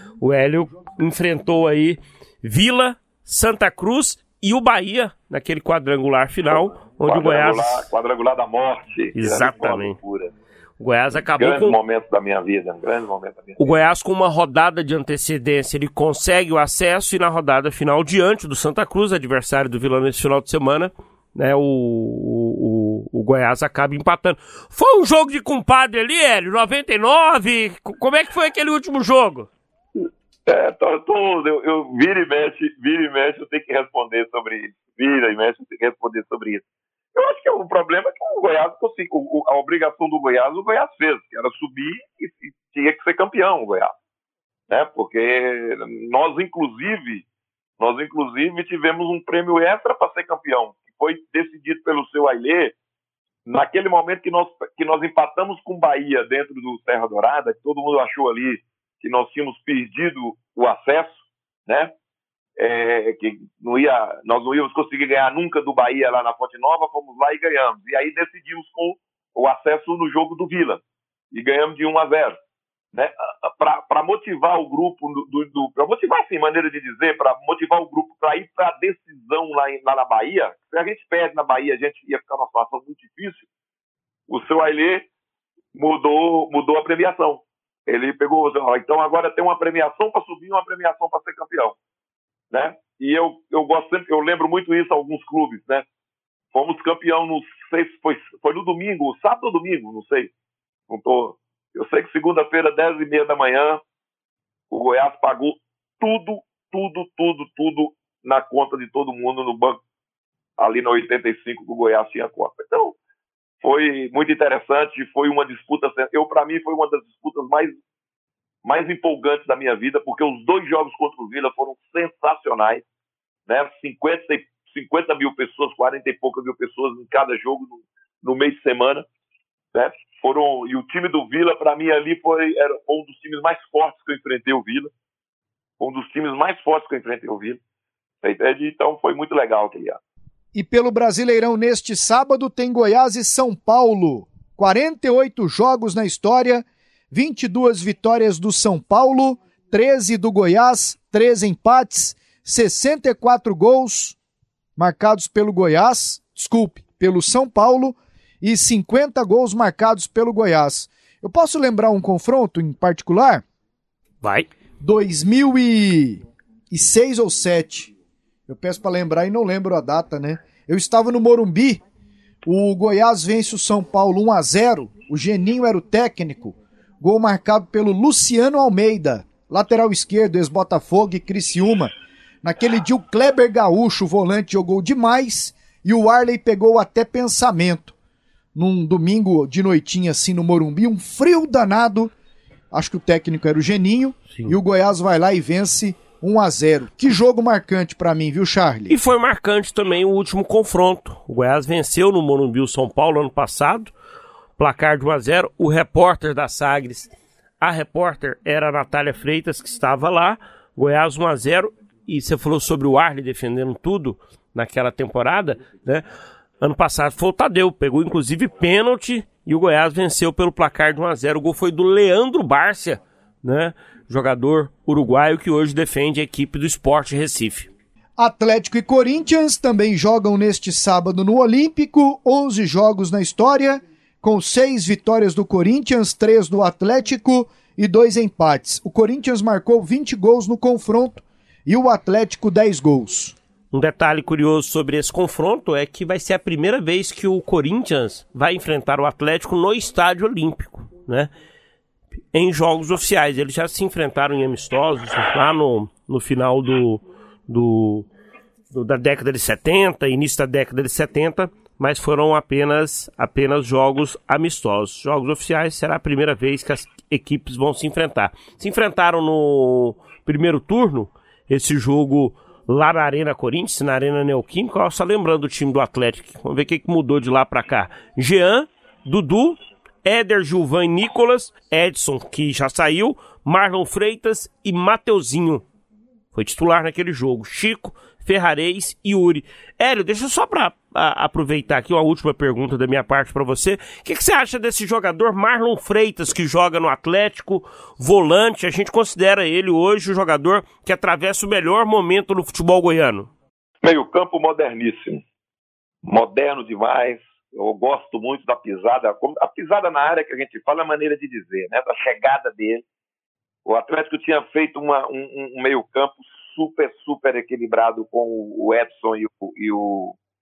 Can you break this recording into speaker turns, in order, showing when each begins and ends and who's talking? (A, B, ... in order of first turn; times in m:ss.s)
0:00.2-0:07.9 A
0:07.0-0:10.3 B
0:09.2-0:10.0 A
0:10.8-0:11.8 A
0:11.4-0:13.7 B
0:13.6-0:29.5 A
0:30.4-0:36.6 B
0:37.1-0:43.9 B
0:44.7-0:47.2 B
0:47.8-0:52.7 B
0:53.4-1:01.9 B
1:02.6-1:10.8 B
1:11.3-1:12.4 B
1:12.9-1:23.5 B
1:24.3-1:25.0 B
1:25.7-1:31.8 B
1:32.5-1:35.8 B
1:36.5-1:40.3 B
1:40.9-1:43.8 B
1:44.7-1:49.8 B
1:50.6-1:53.0 B
1:53.6-1:57.8 B
1:58.6-2:02.8 B
2:03.5-2:09.0 B
2:09.7-2:14.9 B
2:15.8-2:17.6 B
2:18.2-2:20.0 B
2:20.5-2:34.2 C
2:34.8-2:43.4 C
2:44.2-2:44.5 A
2:44.8-2:47.9 C
2:48.5-2:51.8 C
2:52.4-3:07.9 C
3:08.5-3:12.1 C
3:12.7-3:19.0 C
3:18.9-3:23.9 A
3:24.6-3:36.0 A
3:36.6-3:47.7 A
3:48.2-4:03.4 C
4:03.7-4:11.3 A
4:12.3-4:18.1 A
4:18.7-4:45.6 A
4:46.3-5:03.3 A
5:03.8-5:05.2 B
5:06.0-5:12.8 B
5:13.6-5:20.2 B